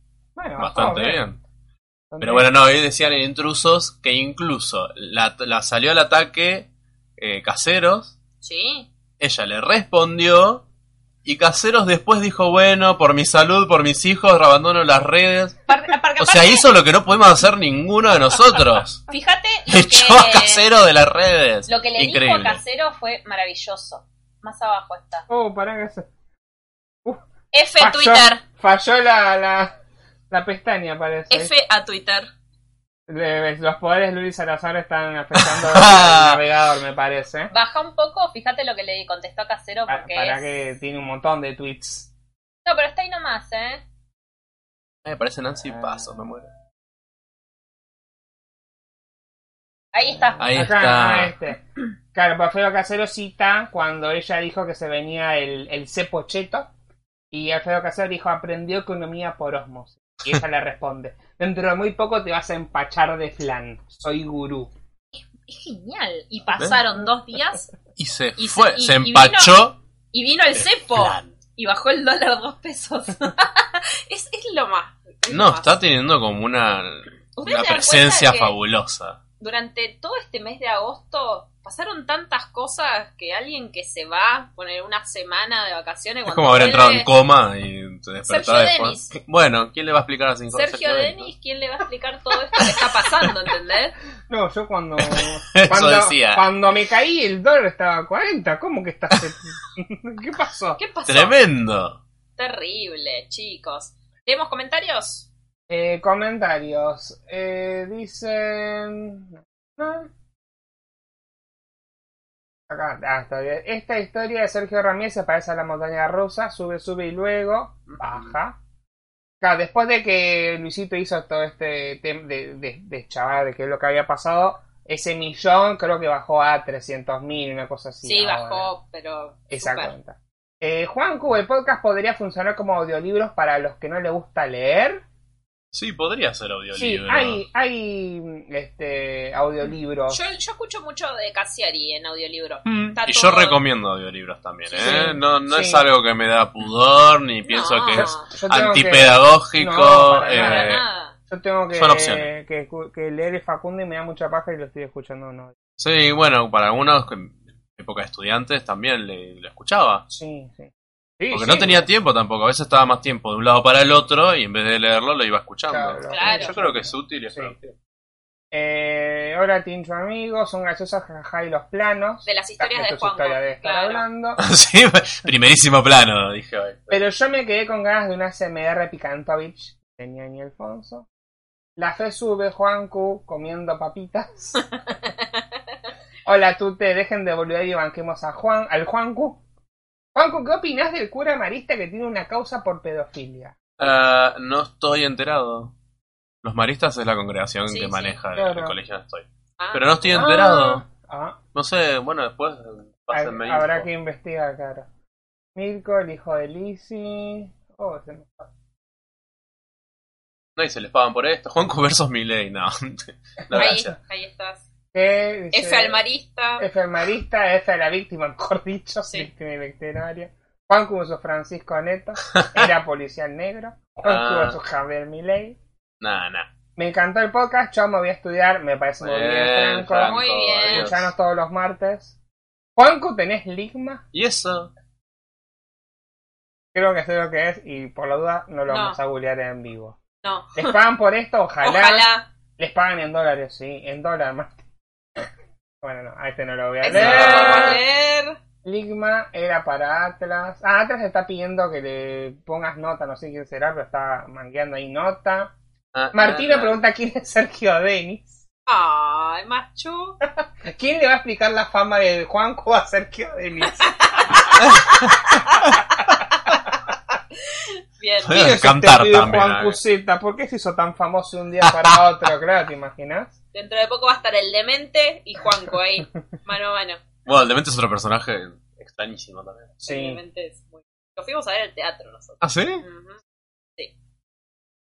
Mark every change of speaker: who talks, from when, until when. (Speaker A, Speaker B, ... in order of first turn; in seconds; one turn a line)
Speaker A: 0.4-1.2
Speaker B: 0.6-1.4
Speaker A: 2.1-2.5
Speaker B: 2.2-8.1
Speaker C: 8.4-8.9
Speaker B: 9.2-10.6
Speaker B: 11.2-15.6
Speaker C: 15.7-16.7
Speaker B: 16.2-19.1
Speaker C: 19.1-20.6
Speaker B: 19.7-22.6
Speaker C: 21.7-25.2
Speaker A: 25.3-26.1
Speaker C: 27.5-28.4
Speaker A: 27.8-29.7
Speaker A: 30.3-31.5
Speaker C: 31.3-32.3
Speaker A: 33.1-37.5
Speaker B: 35.4-36.4
Speaker C: 37.5-40.5
Speaker A: 39.9-42.1
Speaker C: 42.6-43.8
Speaker B: 45.0-46.5
Speaker C: 49.9-50.5
Speaker B: 50.4-51.3
Speaker A: 50.5-56.7
Speaker A: 57.3-64.7
Speaker C: 65.5-67.7
Speaker B: 66.5-66.8
Speaker B: 68.0-69.8
Speaker C: 68.4-75.8
Speaker B: 70.6-71.4
Speaker B: 75.3-79.2
Speaker C: 77.4-78.5
Speaker C: 79.4-87.1
Speaker B: 86.3-91.3
Speaker C: 88.3-89.2
Speaker C: 90.5-94.0
Speaker A: 94.3-100.8
Speaker B: 95.1-96.5
Speaker C: 100.8-101.4
Speaker B: 101.1-102.0
Speaker C: 102.4-105.3
Speaker A: 105.7-110.1
Speaker A: 112.7-118.6
Speaker B: 117.9-118.3
Speaker A: 119.4-128.7
Speaker C: 128.0-129.9
Speaker A: 129.5-135.0
Speaker B: 135.7-137.4
Speaker A: 136.8-140.2
Speaker C: 140.1-143.6
Speaker B: 143.0-150.8
Speaker C: 144.7-145.1
Speaker A: 144.8-145.9
Speaker C: 147.5-148.3
Speaker A: 148.0-155.6
Speaker C: 150.3-151.1
Speaker B: 151.7-152.3
Speaker B: 155.8-160.0
Speaker A: 160.1-161.9
Speaker B: 161.3-167.8
Speaker A: 165.7-167.5
Speaker C: 166.1-166.5
Speaker A: 168.5-174.4
Speaker C: 172.2-174.0
Speaker B: 174.4-177.0
Speaker A: 176.9-181.1
Speaker A: 181.8-184.6
Speaker A: 186.3-189.4
Speaker A: 190.2-193.6
Speaker B: 193.8-195.7
Speaker B: 196.4-200.8
Speaker C: 197.7-198.2
Speaker A: 198.3-198.8
Speaker C: 199.6-200.0
Speaker A: 200.1-201.4
Speaker B: 201.5-203.9
Speaker A: 203.1-204.9
Speaker A: 205.6-208.4
Speaker B: 210.6-213.9
Speaker A: 213.5-213.8
Speaker C: 213.5-214.6
Speaker A: 214.9-216.0
Speaker C: 215.5-216.7
Speaker A: 216.6-225.6
Speaker B: 222.3-222.7
Speaker B: 224.0-224.6
Speaker B: 226.0-226.5
Speaker A: 226.8-232.1
Speaker B: 229.0-231.1
Speaker C: 230.0-230.9
Speaker A: 232.8-234.0
Speaker B: 234.1-234.7
Speaker A: 236.7-240.0
Speaker C: 238.7-239.0
Speaker C: 240.2-240.8
Speaker A: 240.6-244.6
Speaker C: 241.6-242.3
Speaker A: 245.8-247.8
Speaker C: 246.8-248.4
Speaker B: 246.9-247.8
Speaker A: 248.6-255.5
Speaker B: 255.9-256.8
Speaker A: 256.1-258.4
Speaker C: 258.7-260.2
Speaker A: 260.6-264.5
Speaker C: 263.8-265.6
Speaker C: 267.4-268.6
Speaker B: 268.2-269.8
Speaker A: 268.3-273.3
Speaker B: 271.6-272.0
Speaker C: 273.5-277.0
Speaker B: 277.2-279.8
Speaker A: 279.8-280.2
Speaker C: 279.8-283.2
Speaker B: 282.4-282.8